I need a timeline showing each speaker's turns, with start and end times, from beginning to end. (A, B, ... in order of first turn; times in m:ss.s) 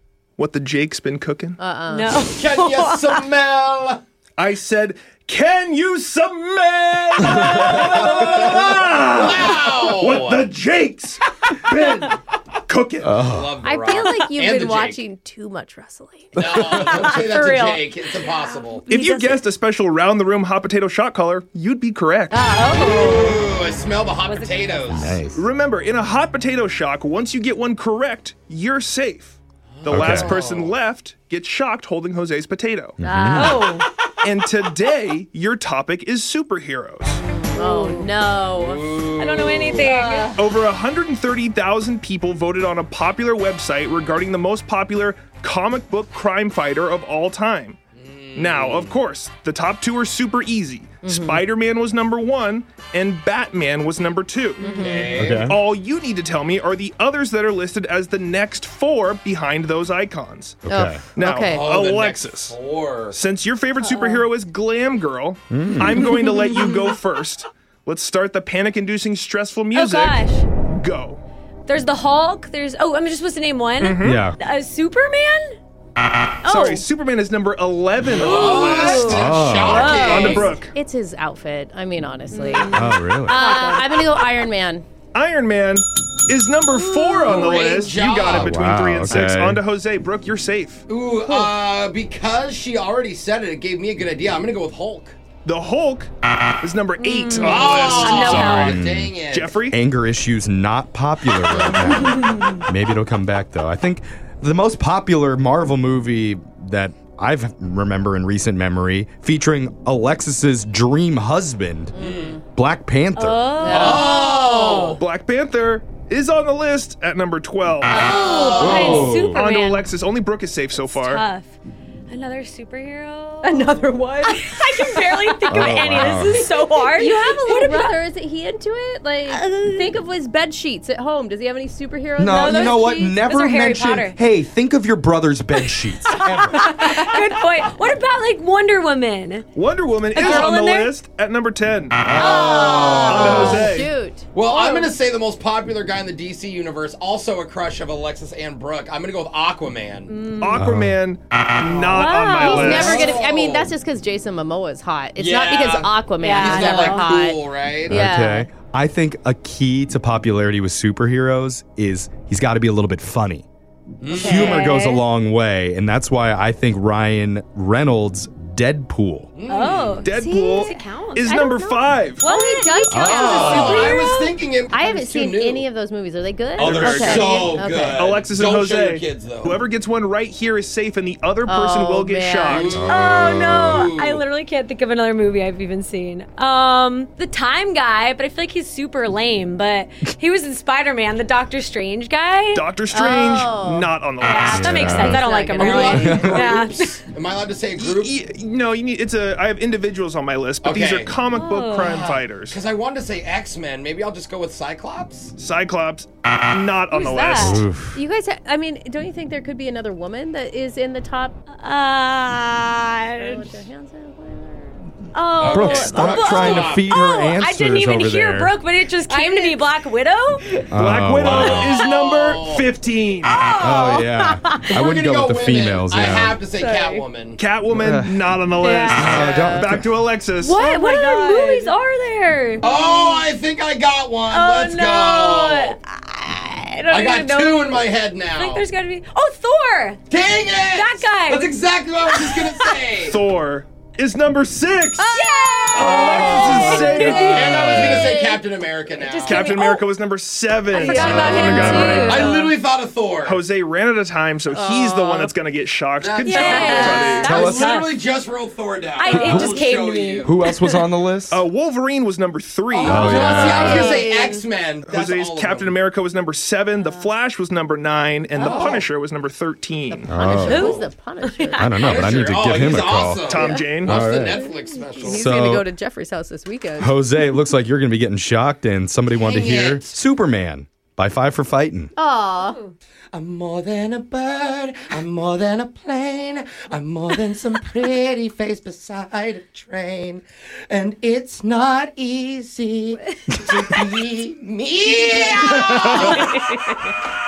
0:00.4-0:01.6 A
0:01.6-0:02.2 B
0:01.9-0:03.3 C
0:02.4-0:04.0 D
0:04.4-0:13.2 A
0:07.7-0:10.5 D
0:13.0-0:13.6 E
0:13.2-0:15.0 D
0:13.6-0:16.5 B
0:16.3-0:18.9 D
0:16.4-0:16.6 E
0:16.7-0:18.0 C
0:18.9-0:19.4 C
0:18.9-0:22.5 A
0:22.3-0:23.5 C
0:22.7-0:25.2 D
0:24.2-0:25.2 C
0:24.9-0:25.4 E
0:25.2-0:33.0 A
0:29.8-0:30.8 D
0:29.9-0:30.3 E
0:33.0-0:33.7 E
0:33.0-0:33.7 B
0:33.3-0:33.9 C
0:34.2-0:37.2 A
0:37.2-0:38.8 B
0:37.5-0:38.1 C
0:38.5-0:39.9 D
0:39.2-0:40.4 C
0:39.7-0:40.4 B
0:40.3-0:47.8 A
0:47.9-0:48.9 D
0:48.3-0:54.8 A
0:51.0-0:51.4 B
0:54.6-0:55.3 B
0:54.6-0:55.0 C
0:54.8-0:55.5 D
0:55.2-0:55.6 E
0:55.3-1:00.6 A
1:00.6-1:01.0 E
1:00.7-1:01.6 B
1:01.1-1:02.6 A
1:01.4-1:03.2 D
1:03.1-1:11.2 A
1:05.5-1:06.1 E
1:09.7-1:10.5 C
1:11.7-1:15.6 C
1:13.8-1:14.2 A
1:14.0-1:14.4 E
1:16.4-1:19.0 A
1:16.5-1:16.8 B
1:18.1-1:20.6 D
1:18.3-1:20.4 C
1:19.0-1:20.1 E
1:19.9-1:20.7 A
1:20.0-1:24.8 B
1:22.3-1:24.0 C
1:22.7-1:23.4 E
1:25.1-1:30.8 A
1:26.9-1:27.7 C
1:27.2-1:28.7 D
1:28.2-1:29.6 E
1:30.9-1:35.2 D
1:31.2-1:31.5 B
1:35.4-1:39.8 A
1:37.0-1:38.8 C
1:37.3-1:39.6 D
1:38.1-1:39.2 E
1:39.7-1:52.0 E
1:51.9-1:52.4 B
1:52.0-1:52.4 D
1:52.5-1:54.0 E
1:53.2-1:54.9 C
1:53.6-1:54.4 B
1:53.6-1:55.0 D
1:54.9-1:58.1 A
1:57.9-1:59.1 D
1:57.9-1:59.9 C
1:58.1-1:59.0 B
1:58.6-1:59.4 E
1:58.7-2:01.2 A
2:00.9-2:01.6 C
2:02.1-2:08.0 C
2:03.4-2:12.9 B
2:05.5-2:06.5 E
2:09.3-2:09.9 C
2:12.2-2:16.8 E
2:12.2-2:14.2 C
2:15.7-2:19.4 C
2:19.5-2:22.1 A
2:20.1-2:20.9 C
2:22.1-2:23.5 E
2:22.1-2:23.8 D
2:22.2-2:24.9 B
2:23.0-2:23.9 A
2:23.2-2:23.6 C
2:24.3-2:30.1 D
2:30.1-2:30.6 C
2:30.3-2:33.0 A
2:30.5-2:31.0 E
2:31.6-2:33.7 D
2:31.9-2:32.8 C
2:32.4-2:38.5 B
2:35.2-2:38.0 D
2:36.2-2:37.1 C
2:37.9-2:43.4 E
2:44.0-2:44.7 D
2:44.1-2:49.3 E
2:44.2-2:45.0 C
2:49.3-2:50.1 D
2:49.5-2:51.4 C
2:50.0-2:52.2 A
2:51.2-2:58.1 B
2:52.2-2:54.2 C
2:52.9-2:53.8 E
2:52.9-2:55.6 D
2:56.6-2:59.6 D
2:56.6-3:02.7 A
2:56.6-2:57.2 E
3:01.4-3:02.8 B
3:02.4-3:04.2 D
3:02.7-3:03.8 E
3:02.8-3:12.6 C
3:12.5-3:15.2 A
3:12.9-3:13.9 B
3:14.2-3:17.0 C
3:14.4-3:15.2 E
3:15.0-3:16.5 B
3:15.5-3:18.2 D
3:15.9-3:16.3 E
3:17.8-3:22.6 A
3:20.6-3:21.2 D
3:21.3-3:22.0 C
3:21.7-3:25.3 D
3:25.4-3:27.6 A
3:26.9-3:31.3 B
3:27.3-3:27.6 C
3:27.4-3:28.0 E
3:31.6-3:33.5 C
3:33.2-3:34.8 B
3:35.1-3:40.5 C
3:35.4-3:36.9 D
3:35.4-3:38.6 E
3:39.1-3:39.7 B
3:40.6-3:43.4 A
3:40.7-3:41.8 E
3:41.3-3:42.7 D
3:43.2-3:44.7 C
3:43.6-3:46.4 E
3:44.6-3:47.4 D
3:46.0-3:47.0 C
3:47.4-3:50.6 A
3:47.7-3:48.3 E
3:48.6-3:49.3 C
3:49.0-3:49.9 E
3:50.4-3:53.3 C
3:50.5-3:51.7 B
3:52.6-3:55.8 D
3:54.3-4:00.0 C
3:56.9-3:58.6 D
4:00.1-4:03.2 D
4:00.7-4:01.6 C
4:02.1-4:02.8 C
4:03.0-4:05.1 A
4:05.0-4:08.4 C
4:05.7-4:07.8 A
4:05.7-4:08.2 B
4:06.0-4:09.5 D
4:06.6-4:07.0 E
4:09.0-4:09.8 C
4:09.2-4:12.4 A
4:10.7-4:12.6 C
4:10.7-4:12.0 B
4:11.0-4:12.1 E
4:11.1-4:13.4 D
4:13.2-4:17.4 A
4:14.5-4:15.3 B
4:16.0-4:20.3 D
4:16.2-4:18.0 C
4:16.5-4:16.9 B
4:17.2-4:17.8 E
4:19.0-4:20.9 C
4:19.1-4:19.6 E
4:20.2-4:21.4 E
4:21.3-4:23.6 A
4:22.7-4:25.8 D
4:22.8-4:23.9 E
4:22.8-4:24.4 B
4:23.6-4:24.4 C
4:24.8-4:30.1 A
4:28.4-4:28.6 C
4:28.4-4:28.7 B
4:28.4-4:28.9 D
4:29.9-4:32.2 B
4:30.1-4:30.7 E
4:30.4-4:31.7 C
4:30.4-4:30.8 D
4:31.6-4:33.3 E
4:31.8-4:35.4 D
4:33.1-4:34.0 A
4:33.3-4:37.0 B
4:33.8-4:34.4 E
4:35.0-4:35.7 E
4:36.8-4:41.9 E
4:39.1-4:40.0 D
4:42.0-4:42.6 B
4:42.4-4:42.7 C
4:43.1-4:56.4 D
4:55.5-4:56.2 E
4:55.7-4:56.6 C